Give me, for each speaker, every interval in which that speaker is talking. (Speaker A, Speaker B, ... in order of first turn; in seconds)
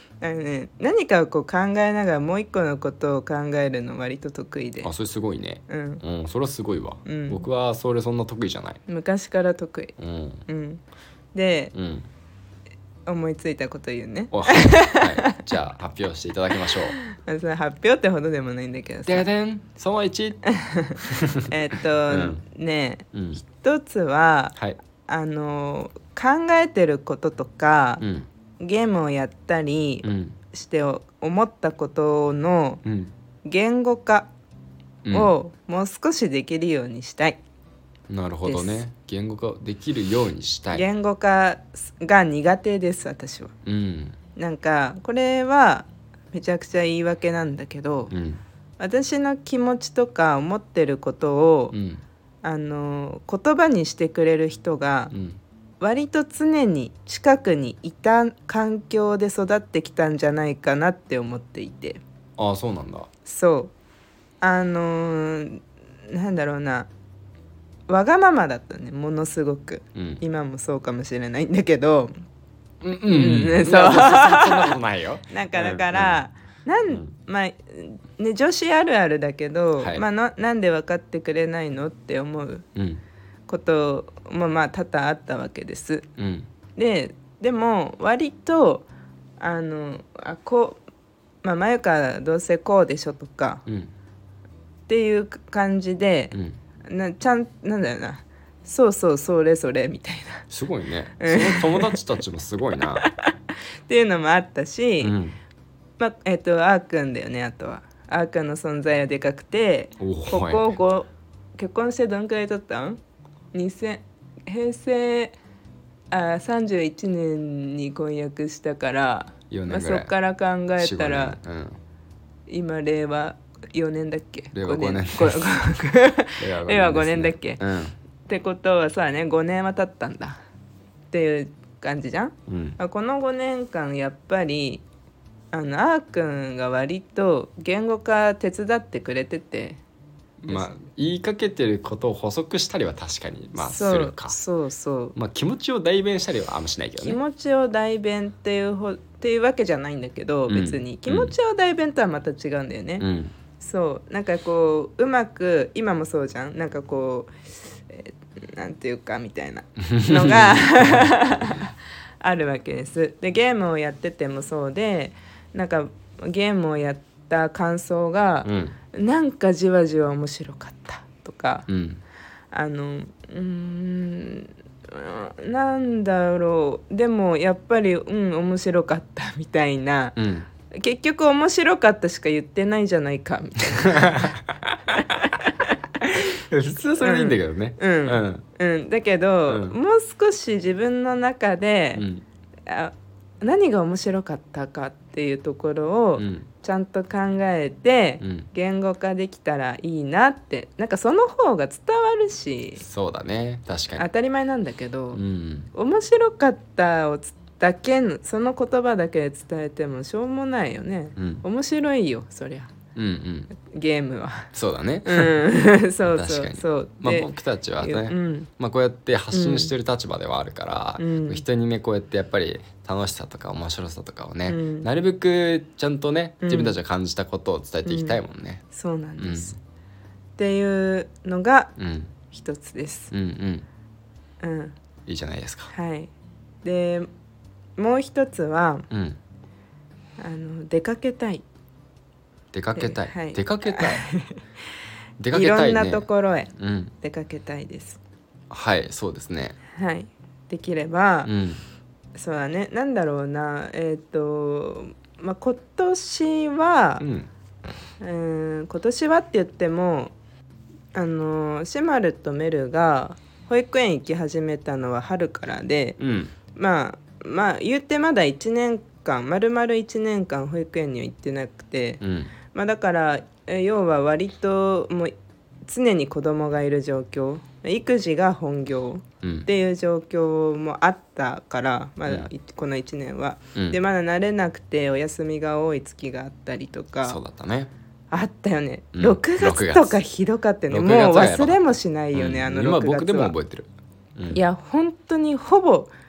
Speaker A: 0.2-4.9, 5.7-6.0, 7.0-7.5, 8.9-10.8, 11.3-11.7, 13.1-15.4, 17.0-19.3, 20.4-28.0, 28.6-32.8, 33.4-34.3, 35.1-37.4, 38.4-38.8, 40.7-43.5, 44.4-48.1, 48.8-51.7, 52.4-55.1, 55.8-62.0, 63.2-63.7, 64.4-66.9, 67.9-72.1, 73.1-74.8, 75.3-82.7, 83.5-86.1, 86.8-88.9, 89.4-90.8, 91.4-93.6, 94.9-100.5, 101.2-102.0, 102.9-103.3, 103.9-105.2, 106.0-113.0, 113.5-115.3, 116.1-121.4, 122.5-127.6, 128.3-130.4, 131.1-134.8, 135.5-139.8, 140.5-140.8, 143.6-145.1, 147.0-153.1, 153.6-171.7, 172.5-180.2, 180.7-184.4, 185.0-185.7, 187.0-192.1, 192.7-202.8, 203.9-205.2, 205.7-212.7, 213.6-214.5, 215.0-217.3, 217.8-218.5, 219.3-219.7, 221.0-221.4, 224.5-224.9, 226.4-226.8, 227.8-228.2, 228.7-229.6, 230.4-231.7, 232.3-233.1, 234.4-234.7, 235.7-236.1, 236.6-237.1, 237.8-238.9, 240.2-241.4, 242.8-244.4, 245.3-248.0, 249.7-251.3, 252.2-257.0, 258.0-260.1, 260.9-266.0, 266.5-275.1, 275.6-287.2, 288.1-293.3, 294.3-295.9
Speaker B: 4.8-8.8, 10.0-10.4, 11.7-12.1, 14.3-17.0, 19.1-20.4, 21.0-21.5, 22.1-22.4, 23.1-23.4, 28.0-28.3, 30.0-30.4, 32.8-33.1, 35.0-35.3, 38.1-40.8, 43.6-44.1, 48.1-48.4, 51.7-52.0, 55.1-55.4, 62.4-63.1, 69.9-70.2, 72.8-76.2, 79.8-80.0, 82.8-83.0, 86.2-86.5, 100.5-103.1, 105.0-105.4, 110.0-110.7, 119.5-120.1, 120.8-121.8, 124.5-125.4, 126.4-127.9, 132.5-132.8, 140.4-144.3, 145.1-147.2, 150.5-151.3, 153.0-153.3, 159.8-161.6, 168.4-168.8, 171.7-172.0, 180.2-180.5, 183.8-185.1, 186.0-188.4, 189.5-189.8, 191.9-192.2, 196.2-196.4, 198.2-198.5, 202.8-204.1, 205.1-205.7, 211.2-211.4, 212.9-213.5, 214.5-215.4, 216.0-228.6, 229.2-229.5, 231.8-232.1, 233.1-233.7, 235.1-235.7, 238.9-239.2, 242.5-244.1, 245.2-246.9, 248.5-249.6, 251.2-251.6, 257.0-257.3, 266.0-266.3, 272.0-272.3, 279.2-279.5, 287.0-287.7, 288.9-290.0, 290.7-294.4